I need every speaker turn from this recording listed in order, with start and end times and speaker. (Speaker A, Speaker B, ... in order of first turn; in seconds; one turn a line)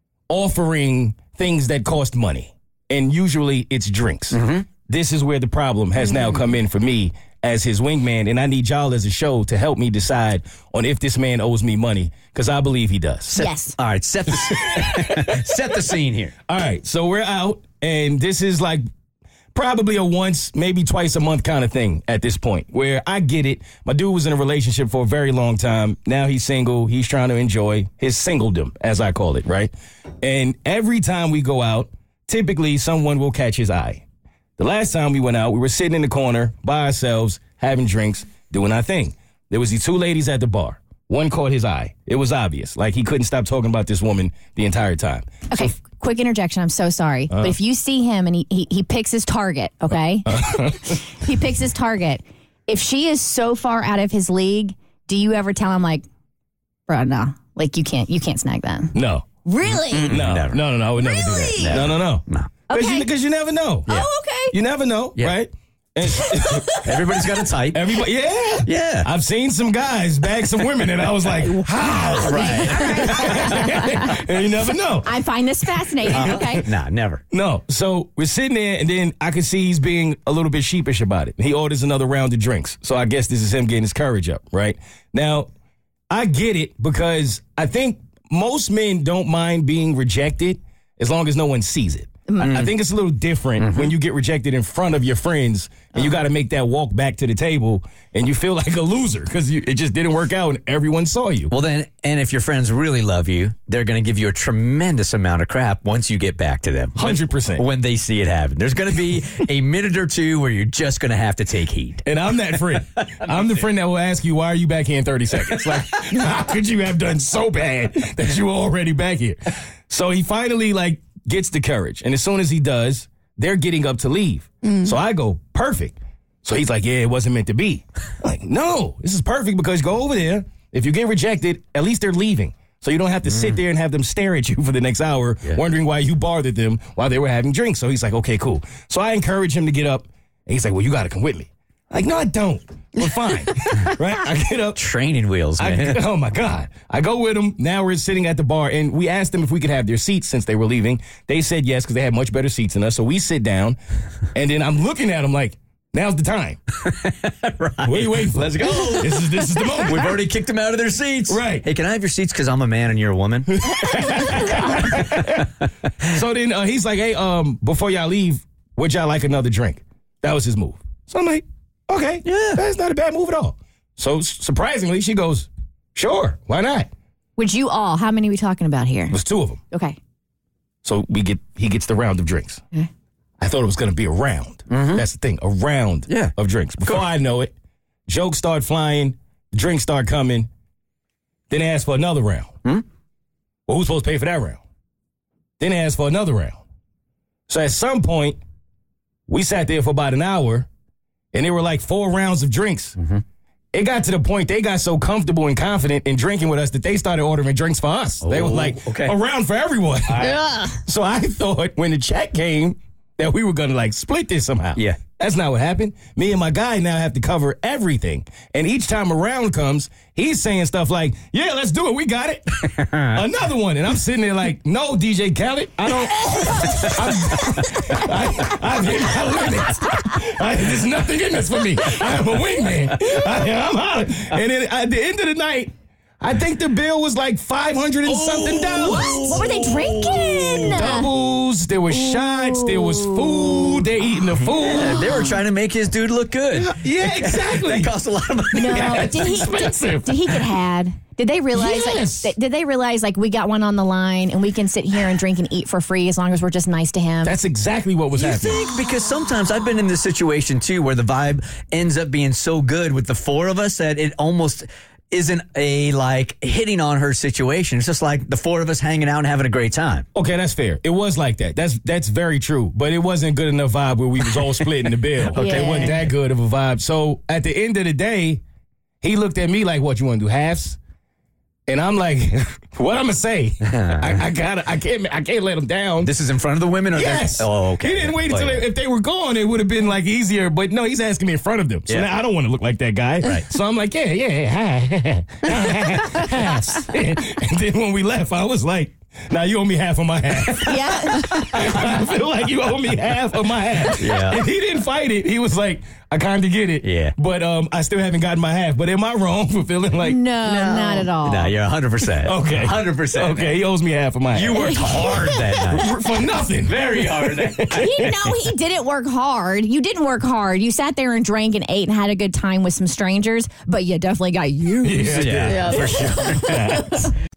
Speaker A: 0.3-13.3
Speaker B: 4.3-4.7
Speaker C: 6.0-6.4
Speaker B: 13.3-16.4
Speaker C: 13.3-13.7
Speaker A: 14.3-15.6
Speaker A: 16.5-18.8
Speaker A: 19.5-34.0
Speaker A: 34.6-45.7
Speaker C: 45.5-56.0
Speaker A: 47.3-47.5
Speaker A: 50.2-50.9
Speaker C: 56.9-60.1
Speaker A: 58.9-59.2
Speaker B: 59.7-60.6
Speaker A: 60.1-63.9
Speaker C: 61.0-61.8
Speaker B: 61.6-62.5
Speaker C: 62.7-63.1
Speaker C: 63.9-64.5
Speaker A: 64.5-75.2
Speaker C: 66.1-66.8
Speaker B: 66.8-68.0
Speaker B: 68.6-69.1
Speaker C: 71.5-74.2
Speaker B: 72.1-73.7
Speaker C: 74.8-76.6
Speaker A: 75.8-76.6
Speaker B: 76.1-77.2
Speaker A: 77.3-85.5
Speaker A: 86.1-101.5
Speaker C: 92.3-92.6
Speaker B: 92.4-92.7
Speaker B: 93.6-93.9
Speaker B: 101.5-112.0
Speaker A: 107.0-107.7
Speaker A: 112.0-119.4
Speaker B: 115.5-116.0
Speaker A: 119.9-144.8
Speaker C: 124.6-124.9
Speaker B: 133.2-133.6
Speaker B: 144.8-146.0
Speaker A: 145.6-153.8
Speaker A: 154.3-156.6
Speaker B: 156.8-165.0
Speaker A: 157.8-160.2
Speaker A: 161.3-161.6
Speaker A: 163.5-165.5
Speaker C: 163.8-164.4
Speaker A: 166.0-176.9
Speaker B: 172.2-172.6
Speaker C: 177.4-179.2
Speaker A: 179.1-179.6
Speaker C: 179.7-180.0
Speaker A: 180.8-182.6
Speaker A: 183.4-187.5
Speaker B: 184.7-185.0
Speaker B: 186.1-187.1
Speaker A: 188.1-190.5
Speaker A: 191.5-192.5
Speaker A: 193.7-194.6
Speaker A: 195.6-196.6
Speaker A: 197.5-198.4
Speaker A: 199.3-200.7
Speaker A: 201.3-202.9
Speaker B: 203.0-203.2
Speaker A: 203.7-239.5
Speaker B: 208.2-209.2
Speaker B: 210.1-210.6
Speaker C: 210.2-210.8
Speaker B: 214.8-215.0
Speaker B: 222.7-223.2
Speaker B: 226.7-227.5
Speaker B: 232.0-233.2
Speaker B: 238.1-240.8
Speaker C: 238.8-241.1
Speaker A: 240.1-245.1
Speaker C: 241.9-243.8
Speaker B: 244.6-249.2
Speaker A: 246.5-247.9
Speaker C: 248.5-257.4
Speaker A: 248.6-250.4
Speaker A: 251.5-252.3
Speaker A: 257.2-258.6
Speaker B: 258.1-270.1
Speaker A: 270.1-278.4
Speaker B: 275.2-276.1
Speaker C: 275.3-276.0
Speaker A: 279.0-280.8
Speaker A: 281.7-286.1
Speaker B: 283.7-284.2
Speaker B: 286.0-288.7
Speaker A: 286.9-310.4
Speaker B: 293.2-293.5
Speaker C: 300.6-301.7
Speaker B: 304.0-304.4
Speaker B: 306.8-307.1
Speaker C: 310.0-311.5
Speaker B: 310.4-313.6
Speaker A: 312.2-318.1
Speaker B: 314.3-315.9
Speaker C: 314.6-315.3
Speaker B: 316.6-318.4
Speaker C: 317.7-327.1
Speaker A: 324.8-327.1
Speaker B: 325.1-326.5